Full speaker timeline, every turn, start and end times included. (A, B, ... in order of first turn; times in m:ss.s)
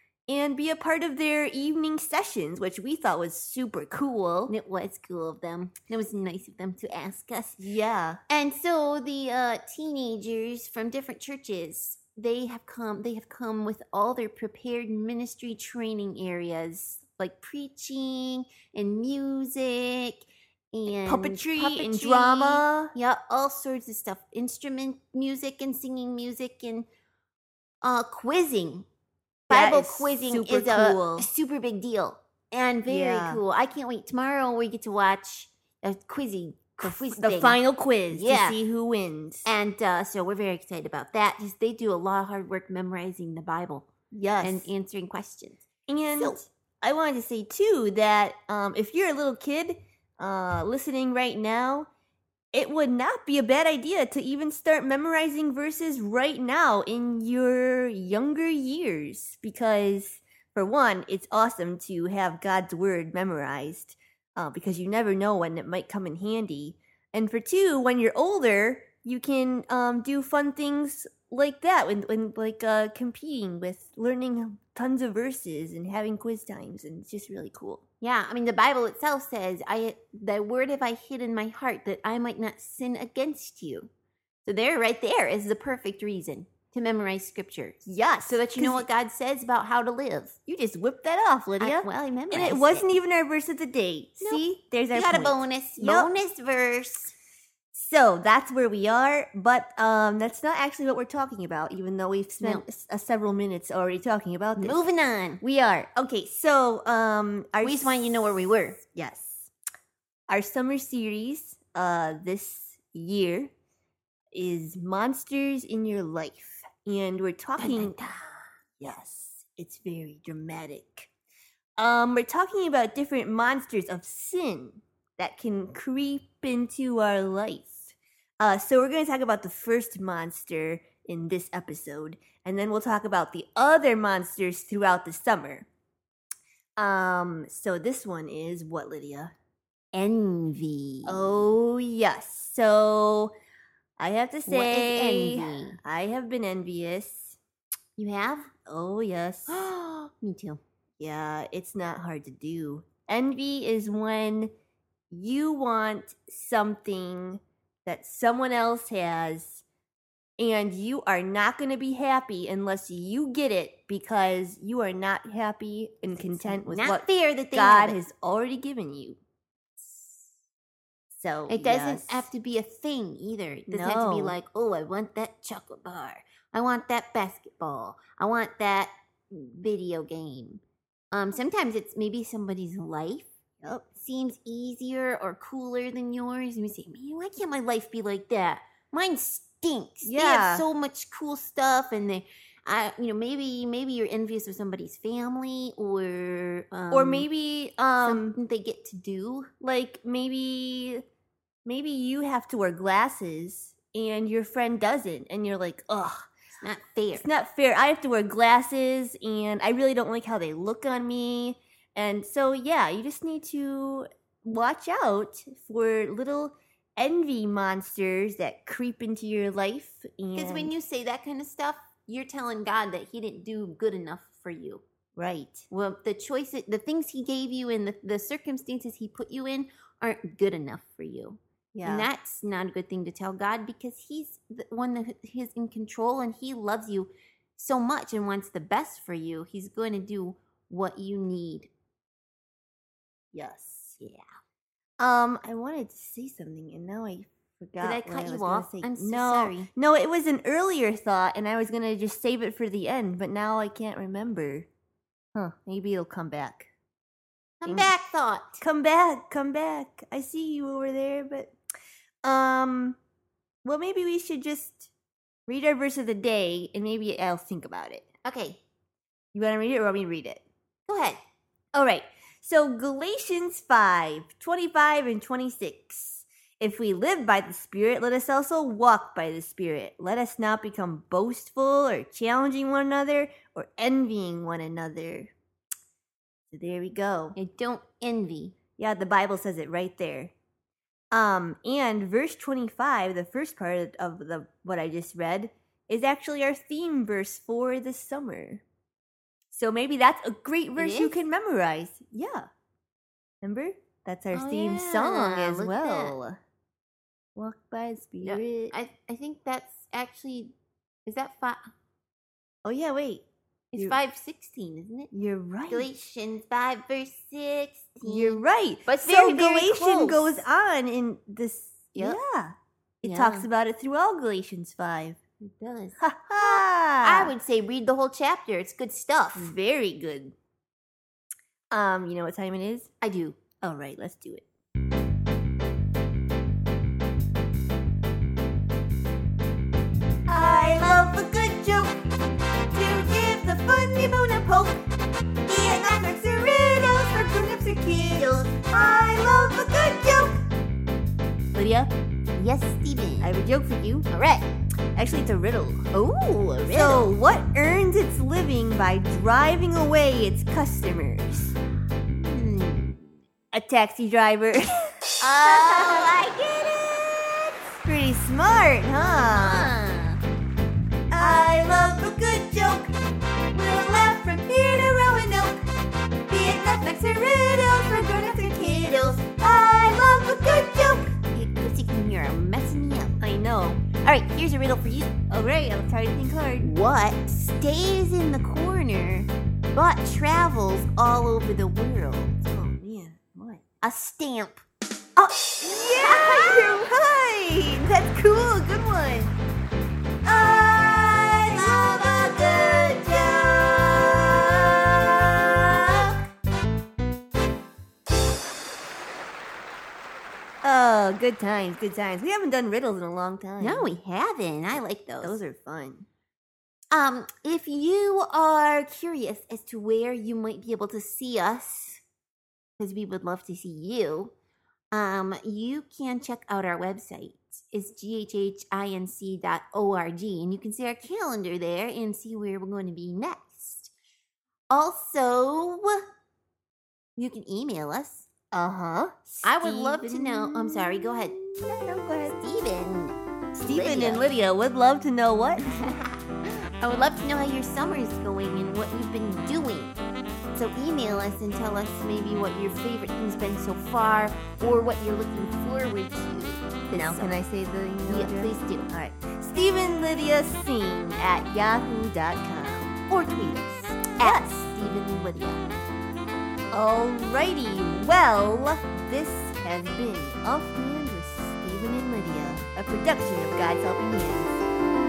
0:00.3-0:04.5 A
0:04.5-0:07.6 B
0:07.6-0:08.2 A
0:08.3-0:26.8 B
0:20.9-0:22.9 A
0:27.8-0:28.8 B
0:29.5-0:31.3 A
0:29.5-0:38.6 B
0:32.8-0:33.4 A
0:36.8-0:39.5 A
0:39.4-0:43.9 B
0:44.1-0:44.7 A
0:44.4-0:45.6 B
0:45.9-0:51.9 A
0:46.1-0:46.4 B
0:52.5-1:17.8 A
1:18.0-1:23.9 B
1:24.4-1:30.4 B
1:27.8-1:28.8 A
1:30.5-1:36.1 A
1:31.6-1:32.9 B
1:34.2-1:37.1 B
1:37.7-1:44.8 A
1:42.4-1:42.6 B
1:44.6-1:45.4 B
1:45.4-1:48.3 A
1:47.6-1:48.8 B
1:48.9-1:49.5 A
1:50.3-1:53.5 A
1:54.3-1:58.0 A
1:57.6-1:58.5 B
1:58.8-2:01.1 A
2:01.8-2:15.7 A
2:16.8-2:19.3 A
2:19.9-2:21.4 B
2:21.1-2:23.3 A
2:24.0-2:27.4 A
2:24.4-2:25.8 B
2:28.0-2:28.5 B
2:28.7-2:29.7 A
2:29.5-2:30.6 B
2:31.0-2:34.5 A
2:35.1-2:39.6 A
2:40.4-2:49.2 A
2:46.1-2:48.0 B
2:51.1-2:52.3 A
2:51.5-3:00.6 B
2:53.7-2:54.4 A
3:01.1-3:03.3 B
3:03.9-3:17.2 B
3:10.0-3:10.7 A
3:16.9-3:18.4 A
3:18.0-3:19.5 B
3:19.6-3:21.0 A
3:21.6-3:26.3 A
3:26.6-3:27.3 B
3:27.1-3:40.7 A
3:40.3-3:44.8 B
3:45.2-3:45.7 A
3:45.7-4:01.7 B
3:51.8-3:52.1 A
4:03.3-4:04.0 A
4:04.0-4:04.2 B
4:05.0-4:14.7 A
4:07.8-4:09.7 B
4:15.4-4:16.7 A
4:17.6-4:18.6 B
4:17.7-4:17.9 A
4:18.6-4:21.5 A
4:22.2-4:23.0 A
4:23.6-4:24.9 A
4:25.5-4:28.0 A
4:28.2-4:28.6 B
4:29.3-4:30.4 A
4:30.9-4:31.2 B
4:31.7-4:45.3 A
4:46.5-4:47.4 A
4:47.4-4:48.6 B
4:48.8-4:50.3 A
4:51.1-4:58.6 A
4:59.5-5:02.5 A
5:00.8-5:01.2 B
5:03.4-5:06.4 A
5:04.3-5:06.1 B
5:07.4-5:08.8 A
5:08.2-5:10.5 B
5:11.1-5:11.6 B
5:12.6-5:13.2 A
5:13.7-5:15.1 B
5:15.1-5:15.9 A
5:15.7-5:20.4 B
5:18.0-5:25.2 A
5:21.9-5:22.2 B
5:23.0-5:23.5 B
5:25.4-5:29.5 B
5:26.0-5:27.4 A
5:29.4-5:30.4 A
5:31.7-5:32.9 A
5:33.0-5:33.4 B
5:33.6-5:34.4 A
5:40.3-5:42.1 A
5:42.7-5:44.8 A
5:45.4-5:50.4 A
5:51.5-5:51.9 A
5:52.4-5:53.3 B
5:53.2-5:54.1 A
5:54.1-5:54.5 B
5:55.0-5:55.8 A
5:55.9-5:57.1 B
5:56.7-6:01.6 A
6:02.1-6:03.1 B
6:03.5-6:06.1 A
6:05.2-6:07.6 B
6:07.8-6:09.7 A
6:09.1-6:10.2 B
6:11.1-6:12.9 A
6:13.5-6:15.6 A
6:16.3-6:21.2 A
6:21.3-6:23.2 B
6:23.2-6:23.8 A
6:24.0-6:25.1 B
6:25.3-6:26.7 A
6:26.6-6:32.3 B
6:32.4-6:33.6 A
6:33.8-6:34.6 B
6:35.2-6:39.4 A
6:35.7-6:36.8 B
6:40.2-6:46.2 A
6:50.6-6:53.9 A
6:53.6-6:55.4 B
6:55.2-6:56.1 A
6:56.9-7:02.0 B
7:02.8-7:04.3 B
7:04.9-7:13.9 B
7:14.7-7:16.1 B
7:17.2-7:18.3 B
7:18.5-7:22.4 A
7:19.4-7:21.4 B
7:22.4-7:24.3 B
7:23.6-7:26.0 A
7:25.8-7:30.0 B
7:30.5-7:37.3 B
7:36.9-7:43.0 A
7:38.1-7:38.9 B
7:43.1-7:45.7 B
7:44.2-7:44.6 A
7:46.7-7:54.6 A